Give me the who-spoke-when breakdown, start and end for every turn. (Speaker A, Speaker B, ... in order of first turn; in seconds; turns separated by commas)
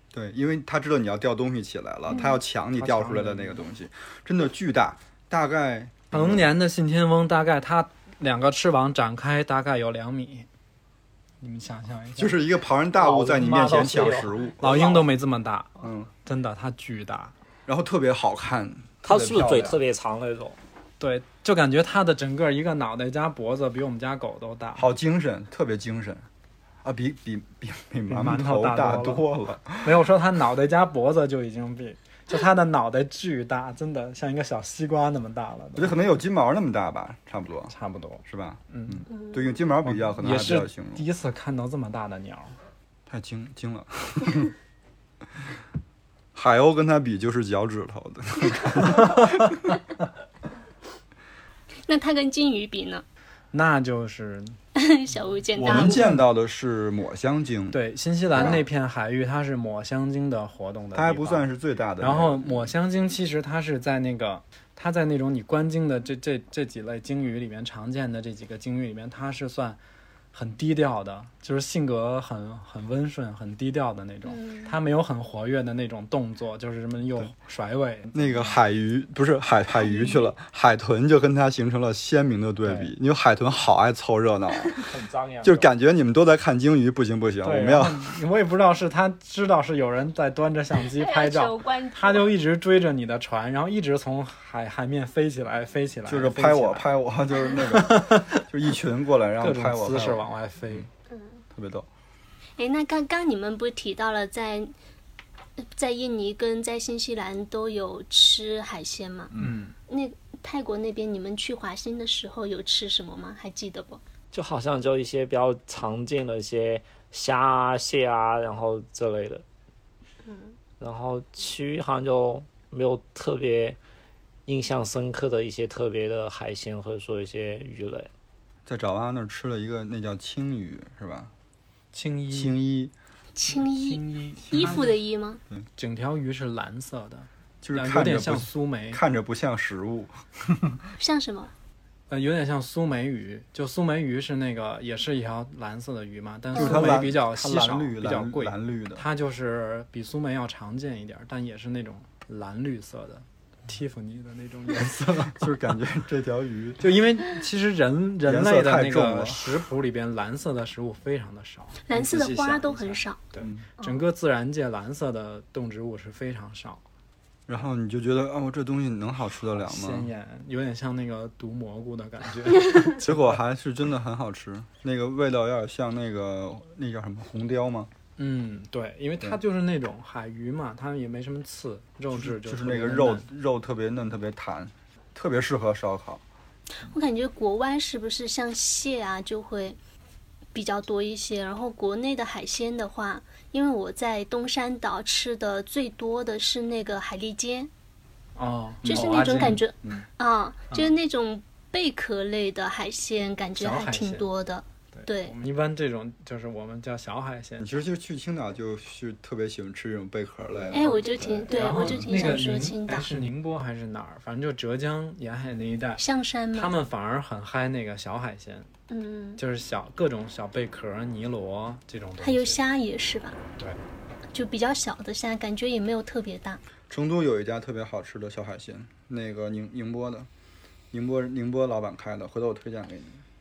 Speaker A: 0.1-6.5, Speaker B: 2.1-2.4, Speaker C: 2.8-3.6, Speaker C: 6.1-10.5, Speaker C: 11.4-12.3, Speaker A: 12.2-15.0, Speaker D: 13.0-15.0, Speaker C: 14.6-15.7, Speaker A: 15.8-16.1, Speaker C: 16.2-17.3, Speaker A: 17.7-19.8, Speaker D: 19.0-20.6, Speaker C: 21.0-24.9, Speaker A: 24.8-26.3, Speaker A: 26.8-29.9, Speaker C: 28.1-29.3, Speaker C: 29.8-36.0, Speaker A: 35.8-37.7, Speaker C: 37.7-39.1, Speaker A: 38.2-41.0, Speaker B: 39.1-39.5, Speaker C: 39.8-42.5, Speaker A: 43.1-44.5, Speaker A: 46.4-49.7, Speaker B: 51.9-53.0, Speaker C: 53.5-54.6, Speaker B: 54.8-56.0, Speaker A: 55.6-57.8, Speaker C: 55.7-56.1, Speaker C: 57.7-61.5, Speaker A: 58.4-58.6, Speaker A: 60.9-62.7, Speaker C: 62.0-69.8, Speaker C: 70.3-78.6, Speaker B: 74.3-74.8, Speaker A: 78.1-84.9, Speaker B: 79.8-80.3, Speaker C: 82.6-82.9, Speaker D: 84.8-85.7, Speaker A: 85.4-88.2, Speaker C: 87.4-96.9, Speaker B: 90.8-92.3, Speaker A: 96.1-100.8, Speaker C: 97.7-98.4, Speaker C: 99.4-100.9, Speaker B: 101.1-101.4, Speaker A: 101.5-101.9, Speaker B: 102.6-104.7, Speaker B: 105.6-109.3, Speaker C: 109.4-109.7, Speaker B: 109.9-114.0, Speaker D: 114.3-119.4, Speaker B: 120.2-120.6, Speaker D: 120.8-123.8, Speaker D: 124.5-128.1, Speaker A: 128.7-131.3, Speaker C: 131.9-132.6, Speaker A: 132.3-132.9, Speaker B: 133.4-135.4, Speaker C: 133.5-134.9, Speaker C: 135.8-139.0, Speaker A: 137.6-140.8, Speaker B: 141.0-141.5, Speaker C: 142.1-155.5, Speaker A: 146.5-149.0, Speaker B: 146.6-146.9, Speaker A: 155.3-156.9, Speaker C: 156.8-166.8, Speaker A: 158.2-159.5, Speaker B: 161.9-163.2, Speaker A: 163.4-163.7, Speaker A: 167.5-170.1, Speaker C: 169.5-173.3, Speaker A: 172.9-177.9, Speaker C: 178.2-183.3, Speaker A: 182.1-186.2, Speaker B: 186.8-189.8, Speaker B: 190.5-197.7, Speaker C: 198.4-199.6, Speaker B: 198.8-205.3, Speaker A: 198.9-200.0, Speaker C: 203.6-204.3, Speaker C: 204.9-207.7, Speaker A: 207.6-212.4, Speaker B: 210.7-213.1, Speaker C: 211.5-218.7, Speaker B: 216.0-216.7, Speaker B: 218.9-219.4, Speaker C: 219.4-222.6, Speaker B: 222.2-223.4, Speaker B: 224.3-226.6, Speaker A: 226.9-230.3, Speaker A: 230.9-233.2